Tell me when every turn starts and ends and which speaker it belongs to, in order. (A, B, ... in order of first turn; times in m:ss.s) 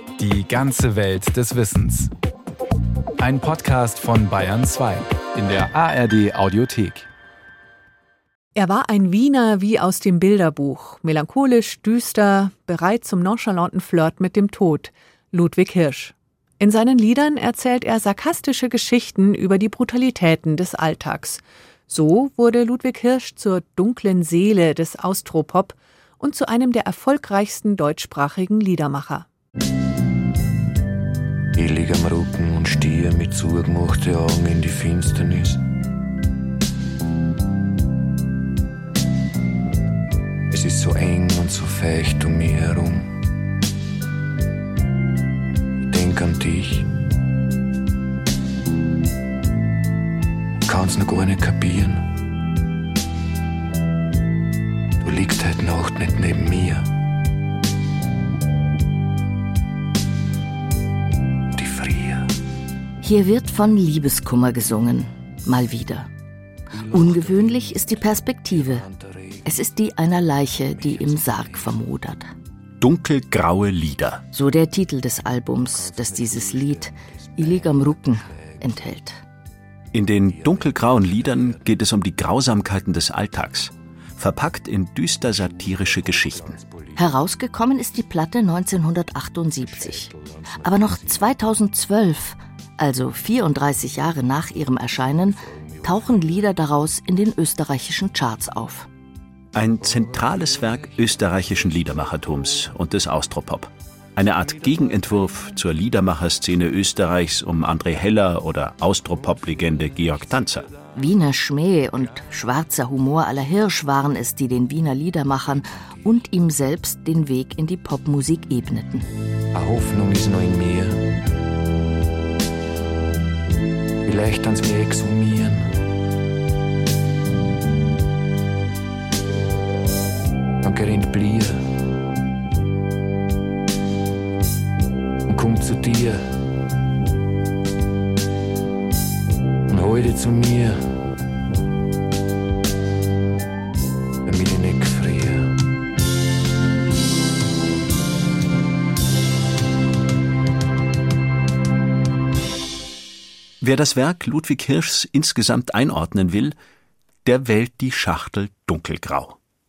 0:00.2-0:02.1 A
0:03.2-0:07.1 A
0:08.6-0:29.3 B
0:31.6-0:35.6 C
0:40.5-0:43.1 C
0:45.8-0:46.9 C
0:50.7-0:52.1 C
0:55.0-0:56.9 C
1:01.5-1:02.3 C
1:03.0-1:06.1 D
1:06.7-1:09.6 C
1:06.9-1:08.9 D
1:09.4-1:12.3 D
1:10.6-1:11.8 C
1:12.8-1:14.2 E
1:14.3-1:19.2 D
1:15.8-1:18.7 C
1:19.9-1:26.6 E
1:26.4-1:27.0 C
1:27.0-1:38.9 D
1:30.2-1:31.0 C
1:39.6-1:50.7 E
1:51.0-1:59.0 D
1:59.5-2:01.1 C
2:04.0-2:05.7 C
2:10.6-2:11.6 C
2:15.3-2:16.2 C
2:19.7-2:20.8 C
2:24.2-2:25.6 C
2:33.6-2:36.6 E
2:37.2-2:39.4 E